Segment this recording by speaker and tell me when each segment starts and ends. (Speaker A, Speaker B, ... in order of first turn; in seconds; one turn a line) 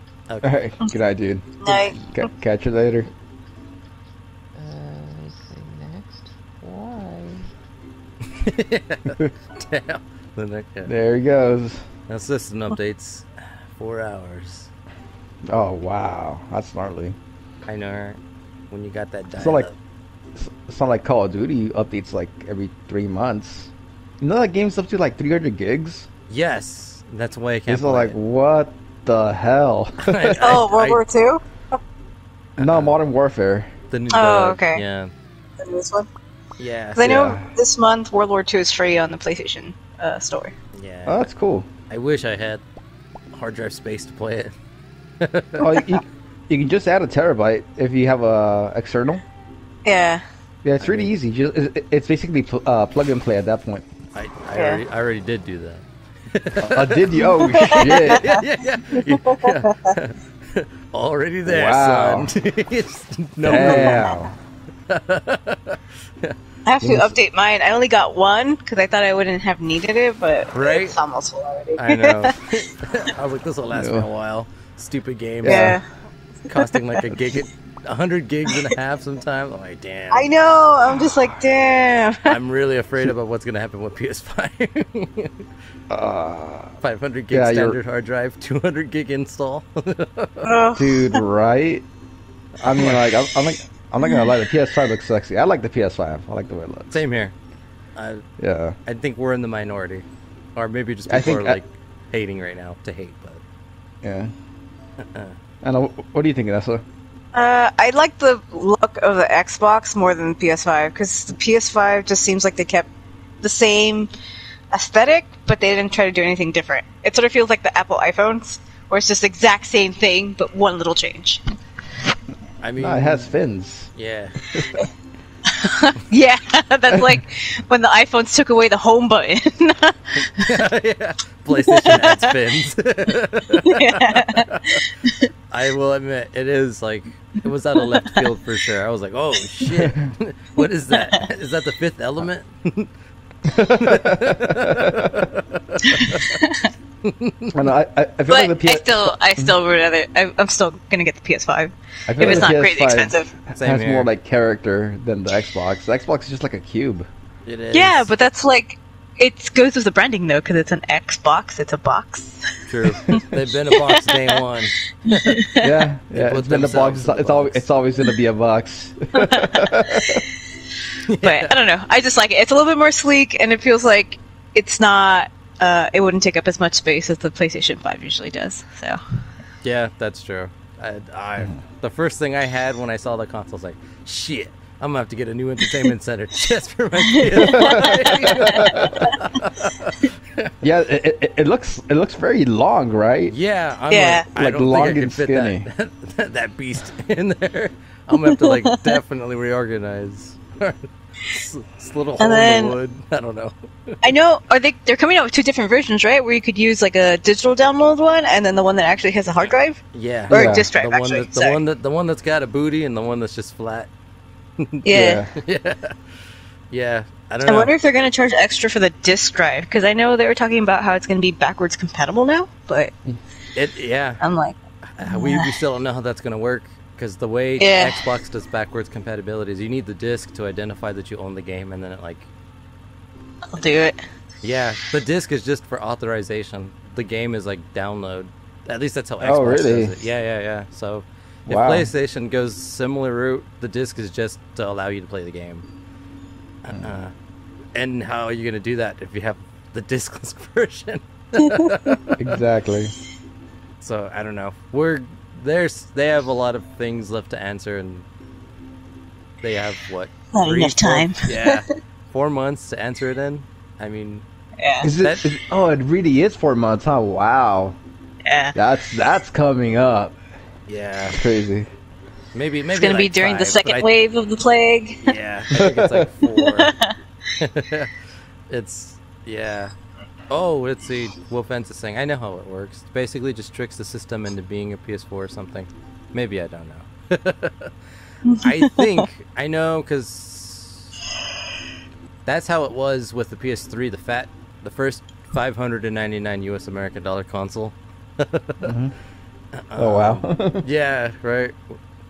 Speaker A: 0.3-0.6
Speaker B: 0.4-3.1
Speaker C: 1.6-2.3
Speaker D: 4.5-7.5
Speaker A: 8.3-10.9
Speaker B: 10.8-11.8
Speaker A: 12.1-14.7
Speaker B: 15.5-17.2
Speaker A: 17.7-19.8
Speaker B: 19.4-19.7
Speaker B: 20.4-26.1
Speaker A: 26.3-28.2
Speaker B: 27.7-30.6
Speaker A: 30.0-31.0
Speaker C: 30.4-31.4
Speaker A: 32.6-33.0
Speaker B: 32.6-33.7
Speaker A: 33.9-35.1
Speaker C: 34.1-34.8
Speaker C: 35.6-36.1
Speaker A: 36.6-37.2
Speaker C: 37.0-40.5
Speaker B: 37.0-37.5
Speaker A: 40.8-41.3
Speaker B: 41.1-41.7
Speaker A: 41.9-42.6
Speaker A: 43.3-44.5
Speaker A: 45.2-45.6
Speaker B: 45.6-49.2
Speaker C: 49.9-50.2
Speaker B: 50.6-53.8
Speaker A: 50.8-51.1
Speaker A: 54.1-64.1
Speaker C: 54.5-54.8
Speaker B: 56.6-58.3
Speaker C: 57.2-59.9
Speaker B: 61.5-62.3
Speaker B: 63.4-64.3
Speaker C: 63.6-64.2
Speaker A: 64.9-66.3
Speaker C: 66.7-72.5
Speaker B: 66.8-67.2
Speaker A: 70.5-71.0
Speaker A: 71.8-75.8
Speaker B: 73.7-74.1
Speaker B: 75.4-75.8
Speaker C: 75.4-75.8
Speaker A: 76.5-80.3
Speaker C: 78.5-78.7
Speaker C: 80.1-82.4
Speaker A: 82.2-85.4
Speaker B: 85.9-86.7
Speaker A: 86.8-90.5
Speaker B: 87.3-87.8
Speaker C: 90.4-91.2
Speaker B: 90.8-91.8
Speaker A: 92.6-93.2
Speaker B: 92.6-97.0
Speaker C: 94.0-94.3
Speaker A: 96.9-97.3
Speaker A: 98.0-98.3
Speaker B: 98.4-98.8
Speaker A: 98.9-103.4
Speaker B: 101.1-101.6
Speaker B: 104.0-104.3
Speaker A: 105.0-105.4
Speaker B: 105.6-106.8
Speaker C: 107.3-112.9
Speaker C: 113.4-114.1
Speaker C: 114.7-121.4
Speaker A: 122.6-123.3
Speaker B: 122.8-123.9
Speaker A: 123.9-124.4
Speaker C: 125.6-130.5
Speaker A: 130.4-134.8
Speaker C: 131.7-132.3
Speaker C: 133.7-135.2
Speaker A: 135.5-142.9
Speaker C: 137.9-138.2
Speaker B: 139.8-140.1
Speaker C: 140.9-141.2
Speaker B: 143.5-145.2
Speaker A: 143.6-146.4
Speaker C: 145.8-146.7
Speaker A: 147.0-147.5
Speaker B: 147.5-149.6
Speaker C: 148.3-153.3
Speaker B: 152.1-157.1
Speaker A: 152.2-152.5
Speaker A: 153.5-154.1
Speaker A: 157.4-158.1
Speaker C: 157.7-163.2
Speaker A: 162.7-165.3
Speaker C: 163.8-164.3
Speaker C: 165.1-165.7
Speaker B: 165.6-170.2
Speaker A: 166.1-167.7
Speaker C: 169.2-170.3
Speaker A: 171.1-171.6
Speaker C: 171.2-179.0
Speaker A: 179.6-190.5
Speaker C: 187.3-188.7
Speaker B: 187.3-189.0
Speaker B: 190.6-193.3
Speaker A: 193.3-203.9
Speaker C: 193.9-194.3
Speaker B: 194.3-195.7
Speaker C: 198.3-198.9
Speaker C: 202.2-202.8
Speaker C: 204.0-211.6
Speaker A: 209.9-213.9
Speaker B: 210.3-210.7
Speaker A: 214.6-215.9
Speaker C: 214.8-215.2
Speaker B: 214.9-215.3
Speaker A: 216.7-217.7
Speaker C: 217.4-222.9
Speaker A: 223.6-224.2
Speaker C: 224.2-225.5
Speaker A: 224.9-232.3
Speaker C: 227.6-228.0
Speaker C: 233.5-234.0
Speaker A: 234.4-245.7
Speaker B: 239.2-239.9
Speaker B: 241.5-241.9
Speaker A: 246.6-247.1
Speaker B: 246.7-247.0
Speaker A: 247.7-252.2
Speaker B: 252.2-252.9
Speaker A: 253.8-258.1
Speaker A: 259.4-264.3
Speaker C: 260.3-261.6
Speaker C: 264.6-264.9
Speaker B: 264.8-267.8
Speaker A: 265.0-265.3
Speaker C: 268.2-268.6
Speaker B: 268.5-270.2
Speaker A: 270.7-271.2
Speaker B: 271.1-271.7
Speaker A: 272.3-273.9
Speaker C: 272.7-275.1
Speaker A: 275.0-276.7
Speaker B: 275.5-276.1
Speaker C: 276.4-276.9
Speaker A: 277.4-277.9
Speaker A: 278.5-279.7
Speaker A: 280.3-287.7
Speaker C: 288.3-288.9
Speaker A: 288.4-290.9
Speaker A: 292.2-298.7
Speaker B: 298.6-298.9
Speaker A: 299.5-301.8
Speaker B: 299.8-300.7